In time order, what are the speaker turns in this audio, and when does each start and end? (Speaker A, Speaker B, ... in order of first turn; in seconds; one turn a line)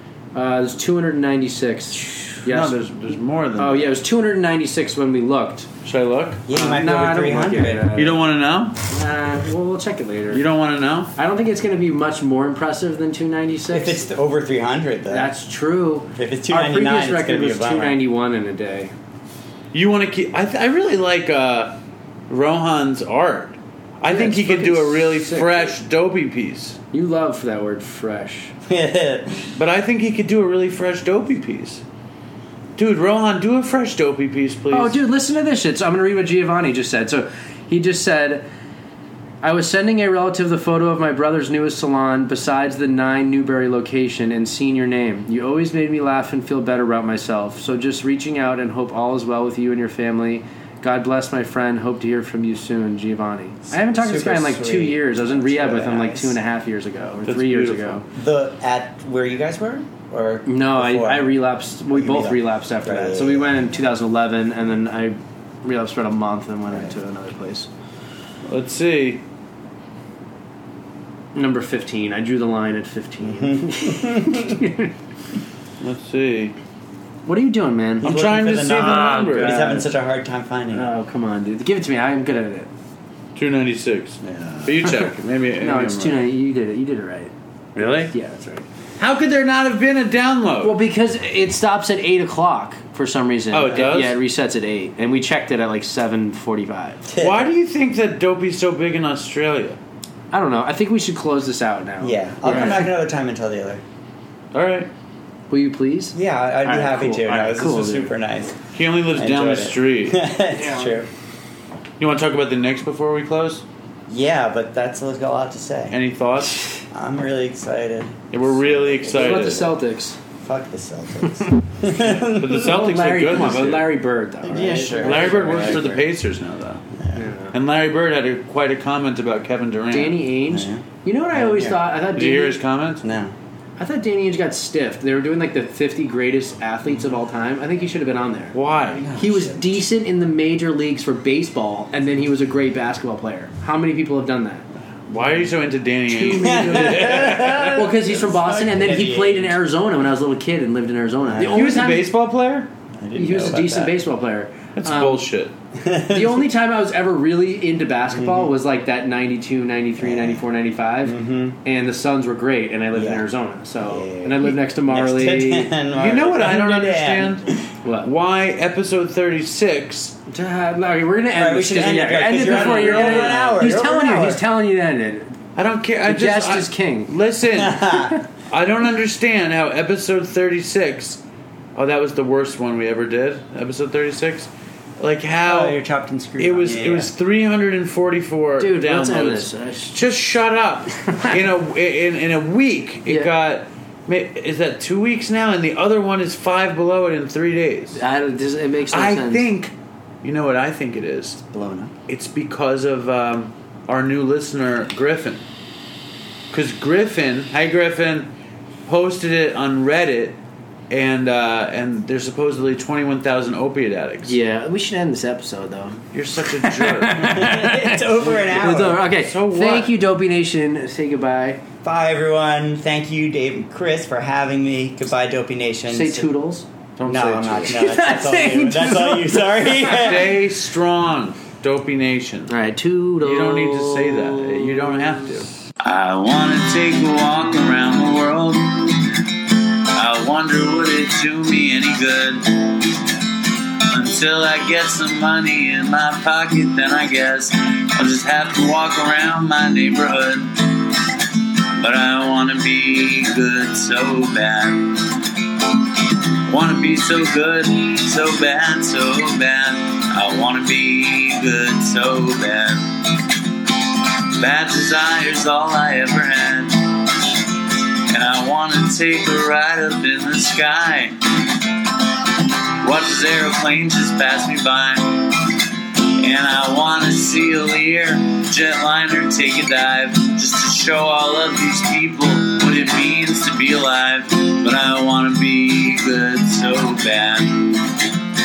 Speaker A: 0.3-2.8
Speaker B: 2.5-4.0
Speaker A: 3.6-5.7
Speaker B: 5.8-6.5
Speaker C: 6.5-7.9
Speaker A: 6.5-8.2
Speaker B: 8.0-8.8
Speaker A: 8.9-10.4
Speaker B: 10.3-11.1
Speaker A: 11.2-14.1
Speaker C: 13.7-15.3
Speaker A: 15.1-18.9
Speaker C: 16.1-18.0
Speaker B: 19.7-21.8
Speaker B: 22.3-26.8
Speaker A: 24.1-25.7
Speaker A: 26.9-28.5
Speaker C: 28.7-29.5
Speaker B: 29.6-31.8
Speaker B: 32.8-35.0
Speaker A: 34.7-38.4
Speaker A: 39.4-58.0
Speaker C: 53.7-56.4
Speaker B: 57.2-58.0
Speaker C: 58.1-63.7
Speaker A: 60.5-67.7
Speaker B: 68.5-69.2
Speaker A: 71.3-74.9
Speaker C: 73.2-74.6
Speaker B: 75.8-76.6
Speaker A: 77.3-78.1
Speaker C: 78.0-80.9
Speaker B: 78.0-79.7
Speaker A: 78.8-79.9
Speaker A: 80.7-82.7
Speaker B: 83.3-86.2
Speaker A: 85.6-88.7
Speaker B: 87.8-88.1
Speaker B: 89.0-90.8
Speaker A: 90.6-97.1
Speaker B: 93.5-94.2
Speaker C: 97.1-97.5
Speaker B: 97.2-99.8
Speaker A: 100.3-102.9
Speaker C: 102.0-103.8
Speaker B: 102.5-102.8
Speaker B: 104.5-104.9
Speaker A: 105.5-108.1
Speaker C: 106.2-111.1
Speaker B: 108.7-110.3
Speaker A: 110.5-111.0
Speaker B: 112.0-113.6
Speaker C: 114.1-116.0
Speaker B: 115.9-116.7
Speaker C: 116.9-119.7
Speaker B: 118.3-119.8
Speaker A: 119.1-120.2
Speaker C: 120.4-122.7
Speaker B: 122.1-123.9
Speaker A: 122.5-126.0
Speaker C: 124.4-126.0
Speaker B: 125.0-126.9
Speaker C: 127.0-127.3
Speaker A: 127.1-127.6
Speaker B: 127.5-130.3
Speaker A: 129.9-132.6
Speaker C: 130.5-131.8
Speaker B: 132.1-133.1
Speaker C: 133.0-133.3
Speaker A: 133.8-144.7
Speaker B: 138.5-139.1
Speaker C: 138.9-139.8
Speaker B: 145.1-147.9
Speaker A: 146.1-152.1
Speaker C: 146.3-149.6
Speaker C: 151.2-151.8
Speaker B: 151.5-152.7
Speaker C: 153.0-154.0
Speaker A: 153.2-155.2
Speaker B: 154.8-155.5
Speaker C: 155.7-156.5
Speaker A: 156.1-165.8
Speaker C: 158.1-158.5
Speaker C: 160.0-160.4
Speaker C: 161.0-161.6
Speaker C: 162.9-163.2
Speaker C: 163.8-167.7
Speaker B: 165.9-167.5
Speaker A: 167.8-168.1
Speaker B: 168.0-170.2
Speaker A: 170.3-175.4
Speaker C: 171.3-174.4
Speaker B: 172.3-173.6
Speaker B: 175.6-181.2
Speaker A: 176.1-177.1
Speaker C: 177.5-178.2
Speaker B: 181.8-185.8
Speaker C: 185.4-187.1
Speaker B: 186.4-198.0
Speaker A: 188.6-190.0
Speaker A: 191.1-191.3
Speaker A: 198.0-199.5
Speaker B: 198.9-201.4
Speaker C: 201.5-201.9
Speaker B: 202.1-205.4
Speaker B: 206.5-208.3
Speaker B: 208.9-210.4
Speaker B: 210.9-214.3
Speaker A: 214.3-221.6
Speaker B: 216.1-219.9
Speaker C: 217.1-219.0
Speaker C: 221.8-226.3
Speaker A: 225.9-230.1
Speaker C: 227.1-230.3
Speaker B: 229.9-232.5
Speaker A: 232.5-235.3
Speaker B: 233.2-239.2
Speaker B: 239.9-243.1
Speaker B: 243.9-251.0
Speaker B: 251.8-255.2
Speaker B: 256.5-263.4
Speaker B: 264.3-267.2
Speaker B: 268.1-271.6
Speaker B: 272.8-275.6
Speaker B: 276.2-288.0